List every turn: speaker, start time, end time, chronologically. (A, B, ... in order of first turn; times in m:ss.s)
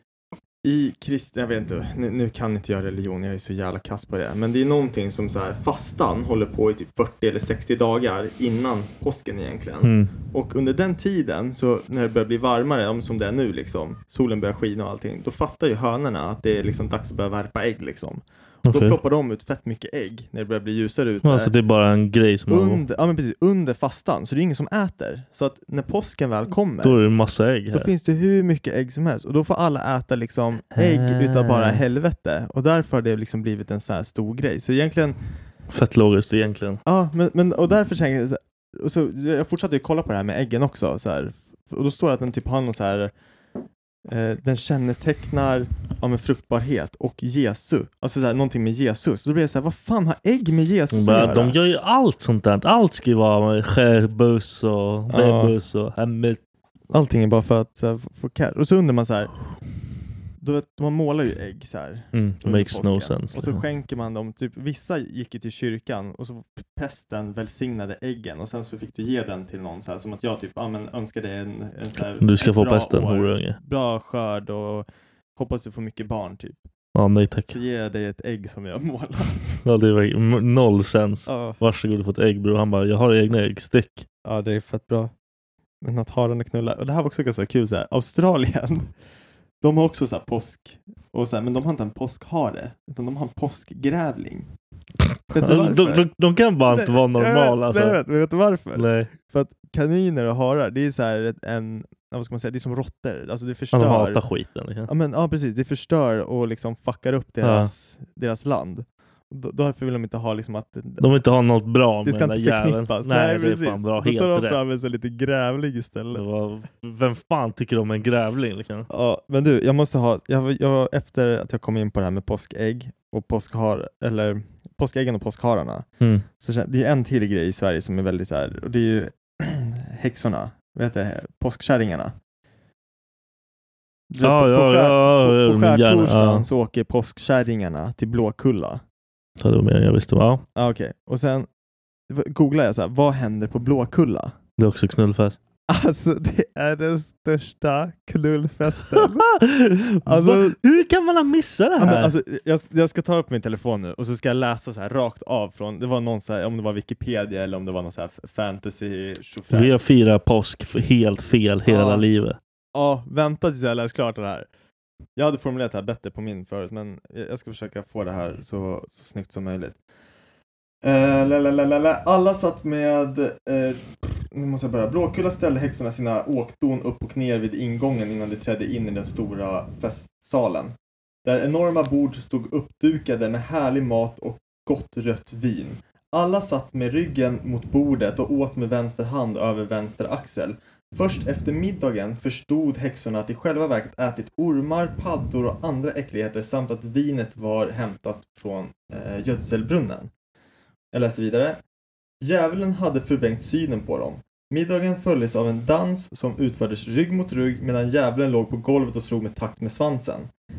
0:00.6-0:21.5 A
0:09.8-0:10.1 B
0:18.6-0:19.0 B
0:21.2-0:22.8 B
0:22.5-0:27.0 A
0:26.8-0:27.9 B
0:27.7-0:35.2 A
0:30.7-0:31.8 B
0:35.7-0:36.8 B
0:36.8-0:43.1 A
0:44.0-0:51.6 A
0:50.9-0:56.4 B
0:55.1-0:55.5 A
0:56.9-0:59.3 A
1:00.4-1:16.6 A
1:02.1-1:03.6 B
1:12.2-1:13.6 B
1:16.9-1:17.6 B
1:17.5-1:19.6 A
1:19.6-1:24.0 B
1:21.2-1:21.6 A
1:24.2-1:25.1 A
1:25.8-1:28.9 A
1:29.6-1:34.5 A
1:35.3-1:36.1 A
1:35.3-1:38.0 B
1:36.6-1:44.2 A
1:38.7-1:39.1 B
1:43.7-1:44.9 B
1:44.9-1:51.4 A
1:47.4-1:47.7 B
1:51.0-1:54.6 B
1:52.0-1:56.2 A
1:56.1-1:58.9 B
1:58.9-2:12.1 A
2:06.0-2:06.2 B
2:14.1-2:18.8 A
2:14.2-2:16.4 B
2:19.4-2:20.4 B
2:20.5-2:21.5 A
2:22.1-2:24.4 A
2:24.6-2:25.4 B
2:25.7-2:29.3 A
2:28.8-2:32.1 B
2:30.0-2:30.6 A
2:31.8-2:39.8 A
2:39.5-2:42.4 B
2:41.7-2:42.0 A
2:42.7-2:44.5 A
2:45.2-2:49.8 A
2:50.8-3:20.1 A
3:20.9-3:21.6 A
3:22.2-3:30.3 A